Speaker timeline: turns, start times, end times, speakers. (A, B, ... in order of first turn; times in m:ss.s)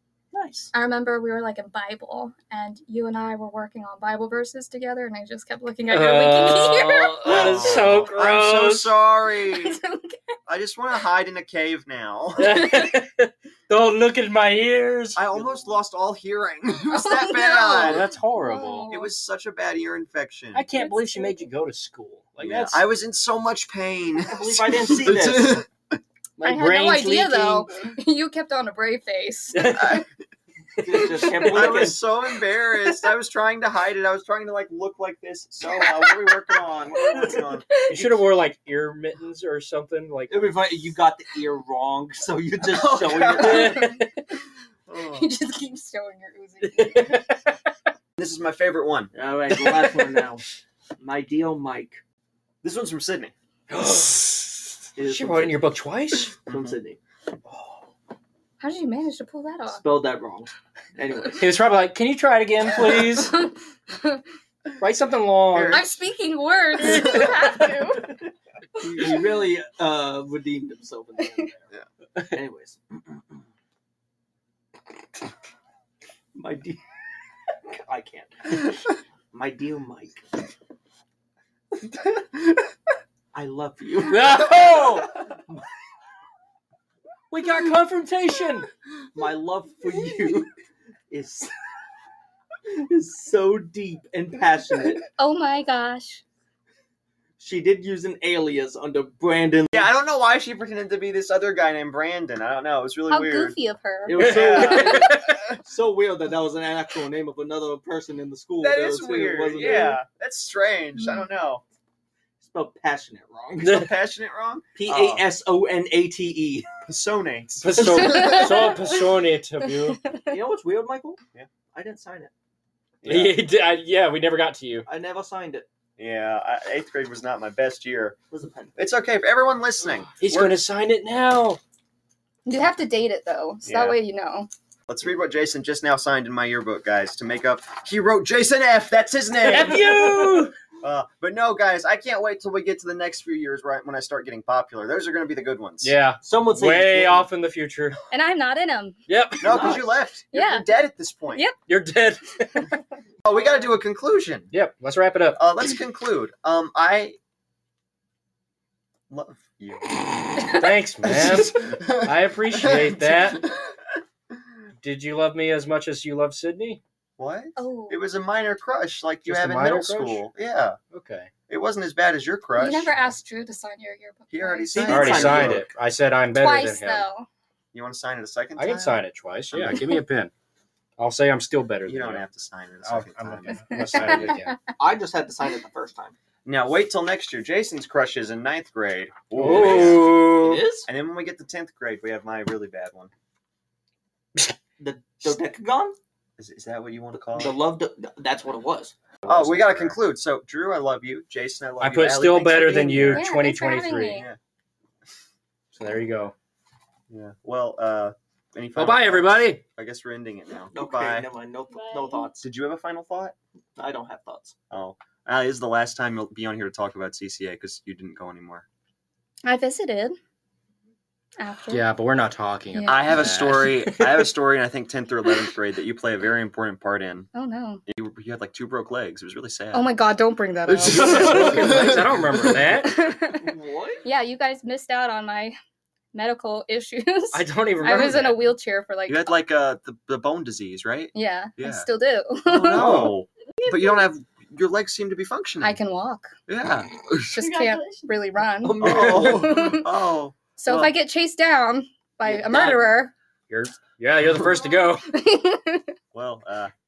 0:00.3-0:00.7 A
0:00.7-0:07.9 B
0:05.9-0:08.9 C
0:07.2-0:09.8 D
0:09.4-0:10.3 B
0:10.5-0:12.7 D
0:12.4-0:15.2 C
0:12.6-0:12.9 B
0:15.2-0:18.1 D
0:15.3-0:15.7 A
0:16.9-0:19.1 B
0:17.8-0:19.0 C
0:18.9-0:20.7 D
0:20.6-0:22.8 C
0:20.8-0:21.5 B
0:22.4-0:26.0 D
0:24.3-0:25.6 A
0:26.4-0:27.7 C
0:26.4-0:30.0 B
0:29.5-0:30.0 C
0:29.7-0:30.1 D
0:30.8-0:32.0 A
0:30.9-0:31.9 B
0:31.2-0:37.7 D
0:32.8-0:33.1 B
0:35.7-0:38.2 B
0:37.9-0:40.5 C
0:40.3-0:43.9 A
0:42.7-0:44.0 D
0:43.4-0:44.1 C
0:43.6-0:44.3 B
0:44.9-0:45.3 D
0:45.0-0:47.3 B
0:46.6-0:47.5 C
0:48.2-0:49.1 D
0:49.1-0:50.5 A
0:49.5-0:50.3 C
0:51.0-0:52.0 A
0:52.6-0:53.3 D
0:53.7-0:54.2 A
0:53.8-0:54.3 C
0:55.0-0:55.6 A
0:55.1-0:56.4 C
0:56.4-0:57.0 A
0:56.5-0:56.8 D
0:58.6-0:59.8 B
0:59.7-1:01.5 A
1:01.4-1:03.4 C
1:02.8-1:04.2 B
1:04.8-1:05.8 C
1:05.5-1:06.0 D
1:05.7-1:08.1 B
1:06.8-1:07.7 C
1:06.9-1:07.2 D
1:08.8-1:11.7 A
1:12.3-1:13.4 A
1:16.4-1:16.8 A
1:17.7-1:18.7 A
1:19.3-1:20.4 A
1:23.3-1:25.6 A
1:24.1-1:25.1 C
1:27.3-1:28.7 C
1:29.2-1:30.5 A
1:31.1-1:31.5 A
1:32.7-1:35.0 A
1:35.1-1:36.2 B
1:37.4-1:39.9 A
1:39.7-1:43.6 D
1:43.1-1:45.1 B
1:44.1-1:50.0 A
1:44.2-1:45.2 D
1:44.2-1:45.4 C
1:48.6-1:51.6 D
1:49.6-1:50.0 B
1:51.0-1:51.3 B
1:52.4-1:53.8 A
1:53.6-1:55.3 D
1:54.8-1:56.7 A
1:56.8-1:58.5 D
1:57.6-2:00.0 C
1:57.9-1:58.9 B
1:59.9-2:00.3 B
2:00.3-2:01.2 A
2:01.7-2:02.3 A
2:03.0-2:03.4 D
2:03.0-2:04.9 C
2:04.9-2:05.6 A
2:06.0-2:08.2 D
2:08.3-2:08.9 A
2:08.8-2:10.6 D
2:10.1-2:11.6 C
2:12.4-2:14.5 B
2:13.7-2:14.0 D
2:14.9-2:25.9 D
2:19.4-2:20.5 C
2:25.8-2:28.0 C
2:26.2-2:27.3 A
2:28.1-2:29.0 B
2:29.1-2:29.6 C
2:29.4-2:31.4 D
2:29.4-2:29.9 A
2:30.3-2:30.6 B
2:31.7-2:32.8 C
2:33.2-2:34.5 D
2:34.5-2:35.4 C
2:35.4-2:37.2 D
2:39.1-2:43.7 D
2:40.4-2:40.6 B
2:40.6-2:43.4 C
2:44.8-2:46.8 C
2:47.2-2:50.8 D
2:47.6-2:48.0 B
2:49.2-2:50.3 C
2:50.9-2:51.3 C
2:51.5-2:53.0 D
2:52.6-2:55.3 B
2:54.3-2:55.7 D
2:54.8-2:55.7 A
2:54.9-2:57.0 C
2:56.4-2:57.3 B
2:57.7-2:59.8 D
2:58.6-3:00.3 C
3:01.0-3:02.2 C
3:01.9-3:04.4 D
3:02.8-3:04.6 C
3:03.6-3:04.6 B
3:04.8-3:06.2 A
3:06.4-3:10.3 D
3:09.4-3:10.6 C
3:09.5-3:10.9 A
3:10.8-3:13.1 D
3:14.8-3:16.0 A
3:16.4-3:17.6 D
3:17.3-3:19.0 A
3:19.2-3:20.0 C
3:19.2-3:23.3 D
3:21.8-3:24.2 C
3:22.7-3:24.3 B
3:25.7-3:26.3 C
3:27.1-3:31.3 D
3:28.8-3:29.6 C
3:30.7-3:32.4 A
3:31.9-3:32.2 B
3:32.4-3:33.4 D
3:33.8-3:34.6 A
3:34.7-3:38.6 D
3:39.4-3:40.2 B
3:41.4-3:41.8 B
3:41.7-3:44.3 C
3:42.7-3:43.3 B
3:42.9-3:47.3 D
3:47.3-3:47.8 B
3:47.9-3:49.9 D
3:49.7-3:52.0 B
3:50.7-3:52.7 D
3:50.9-3:53.0 C
3:52.8-3:55.6 B
3:53.4-3:54.0 A
3:56.1-3:59.3 B
3:57.3-3:58.5 C
3:59.1-4:01.9 D
4:01.1-4:03.1 B
4:02.4-4:05.8 D
4:02.7-4:03.2 C
4:05.6-4:06.3 B
4:06.5-4:07.5 D
4:07.2-4:10.0 B
4:08.6-4:09.7 A
4:08.8-4:10.9 D
4:10.6-4:13.1 B
4:12.2-4:13.0 A
4:13.5-4:15.1 C
4:15.0-4:15.9 B
4:16.1-4:16.7 D